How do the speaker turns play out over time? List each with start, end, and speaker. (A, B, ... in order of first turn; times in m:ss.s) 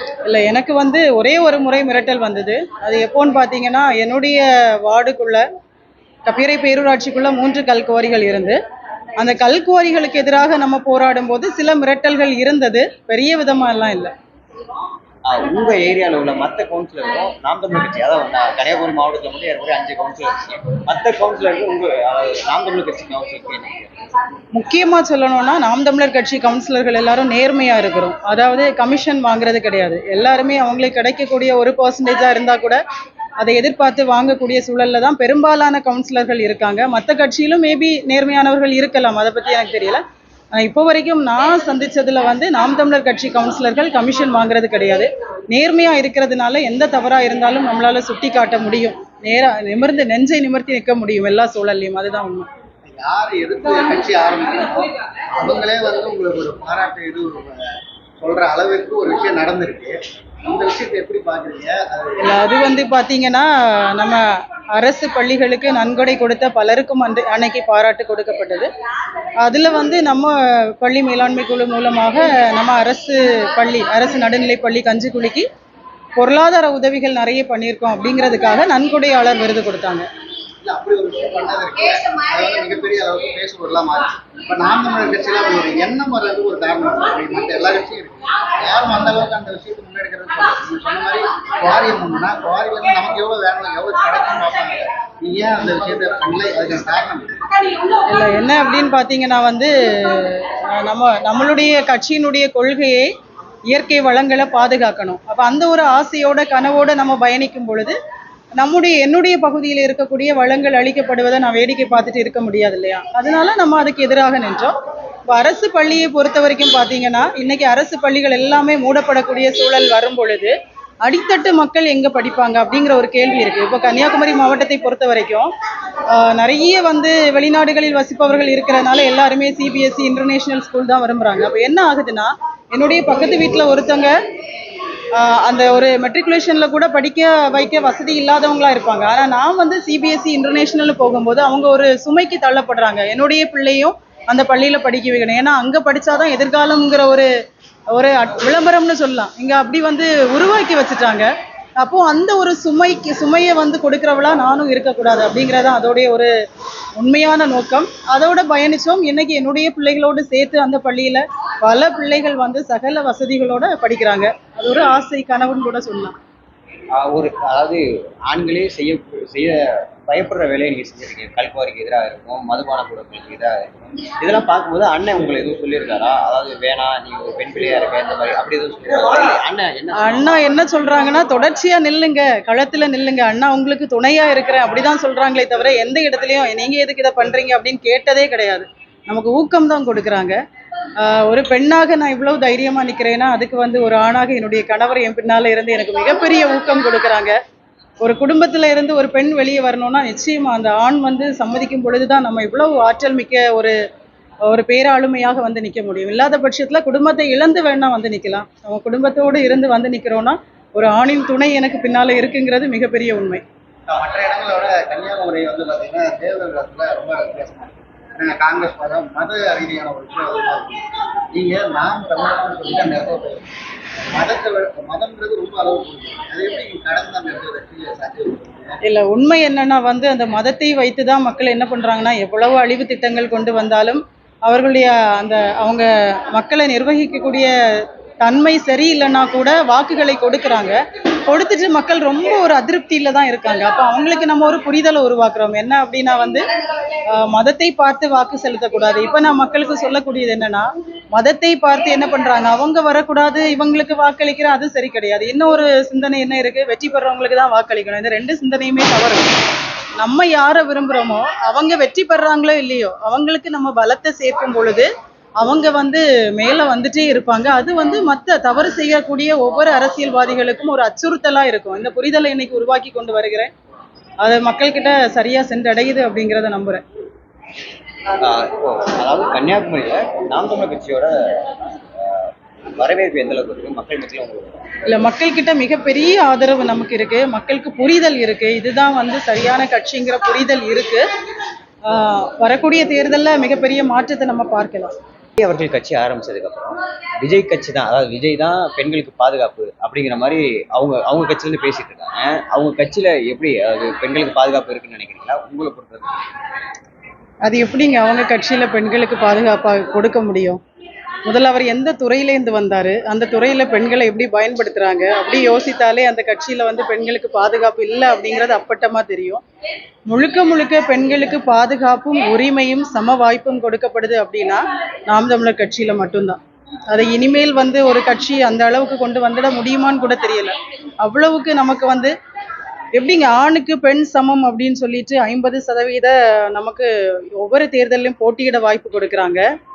0:00.2-0:05.4 A
0:06.2-0:08.6 A
0:09.2-0:14.1 A
0:15.2-0:23.9 B
0:24.5-0:32.8 A
0:33.4-0:52.5 A
0:52.8-1:02.3 C
1:02.2-1:08.7 A
1:09.4-1:15.5 A
1:16.2-1:20.0 A
1:20.6-1:37.5 C
1:38.1-1:43.1 A
1:43.7-1:47.9 A
1:48.6-1:54.8 A
1:55.3-2:05.5 A
2:06.1-2:14.1 A
2:15.2-2:27.3 A
2:27.9-2:31.3 A
2:31.8-2:36.3 A
2:37.0-2:46.1 A
2:46.9-3:00.4 B
3:00.0-3:10.4 A
3:11.0-3:17.4 A
3:18.0-3:23.7 A
3:24.5-3:33.4 A
3:33.9-3:43.4 C
3:44.1-3:48.8 C
3:48.8-4:06.5 A
4:07.1-4:19.3 A
4:20.0-4:24.9 A
4:25.4-4:33.5 A
4:34.2-4:36.8 A
4:38.2-4:41.4 B
4:42.0-4:44.6 B
4:44.9-4:51.0 A
4:51.8-4:54.9 A
4:55.4-5:06.2 B
5:07.4-5:10.6 A
5:11.2-5:19.4 A
5:20.1-5:32.1 A
5:32.9-5:39.4 A